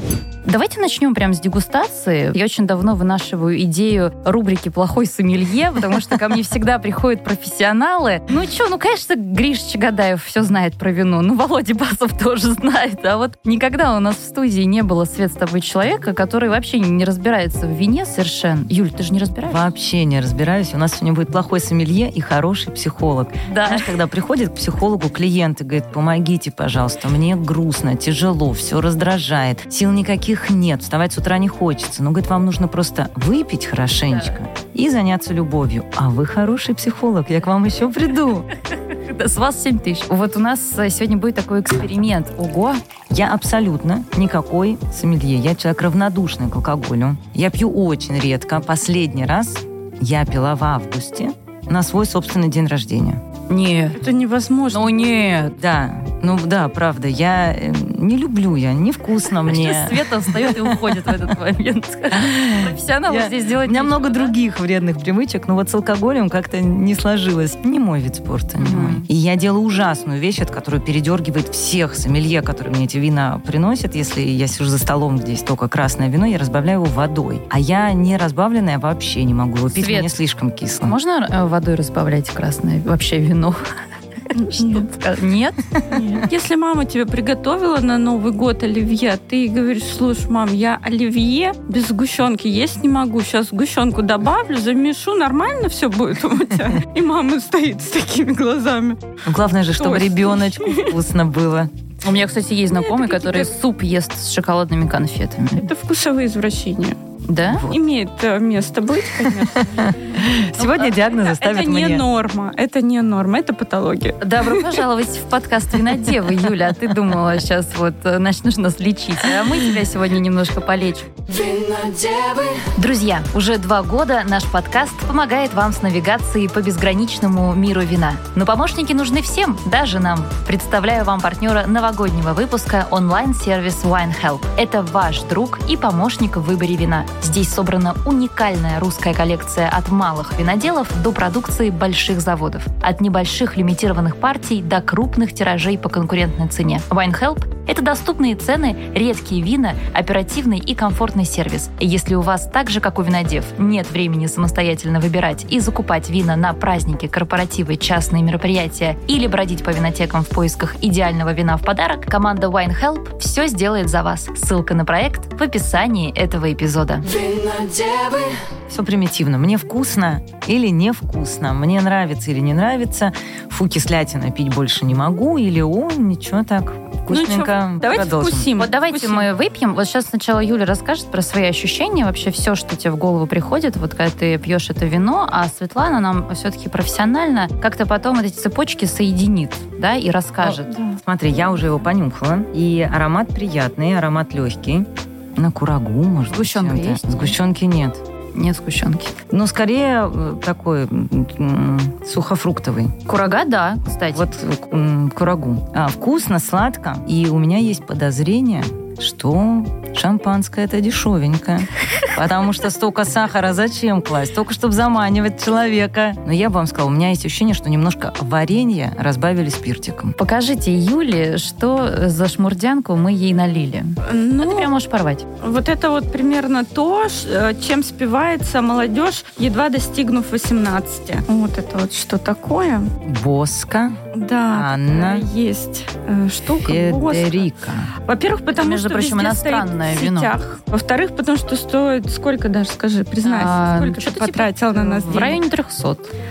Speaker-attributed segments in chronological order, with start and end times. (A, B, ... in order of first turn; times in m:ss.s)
0:00.4-0:19.6 A
0:19.5-0:38.5 B
0:23.4-0:23.9 A
0:38.9-0:42.8 A
0:43.1-0:53.2 B
0:53.5-0:54.0 A
0:54.0-0:55.3 C
0:54.7-0:55.5 A
0:55.6-1:01.3 B
0:59.4-1:04.3 A
1:02.1-1:21.0 B
1:08.6-1:09.1 A
1:19.7-1:20.1 A
1:20.8-1:23.6 A
1:24.3-1:24.8 C
1:24.4-1:26.2 A
1:25.9-1:39.0 C
1:39.2-1:41.7 B
1:39.7-1:41.0 C
1:42.0-1:45.7 A
1:42.7-1:43.5 C
1:45.6-1:47.0 C
1:47.3-1:47.7 A
1:47.5-1:47.7 B
1:47.6-1:49.7 C
1:49.2-1:52.0 B
1:50.6-1:50.8 A
1:50.9-1:54.8 C
1:54.2-2:01.1 A
2:01.4-2:02.4 C
2:02.6-2:47.1 A
2:47.2-2:48.2 C
2:48.7-2:58.5 B
2:57.1-2:59.3 C
2:58.6-3:10.8 A
3:11.0-3:18.0 B
3:16.3-3:17.4 A
3:18.3-3:19.1 A
3:19.3-3:23.0 B
3:23.1-3:24.3 A
3:24.1-3:40.1 B
3:40.2-3:45.2 A
3:44.0-3:44.7 C
3:45.4-3:52.9 C
3:53.0-3:54.0 B
3:54.1-3:57.5 C
3:54.5-3:55.2 B
3:56.6-3:57.9 B
3:58.0-4:05.4 C
3:58.5-4:00.3 A
4:03.2-4:06.1 A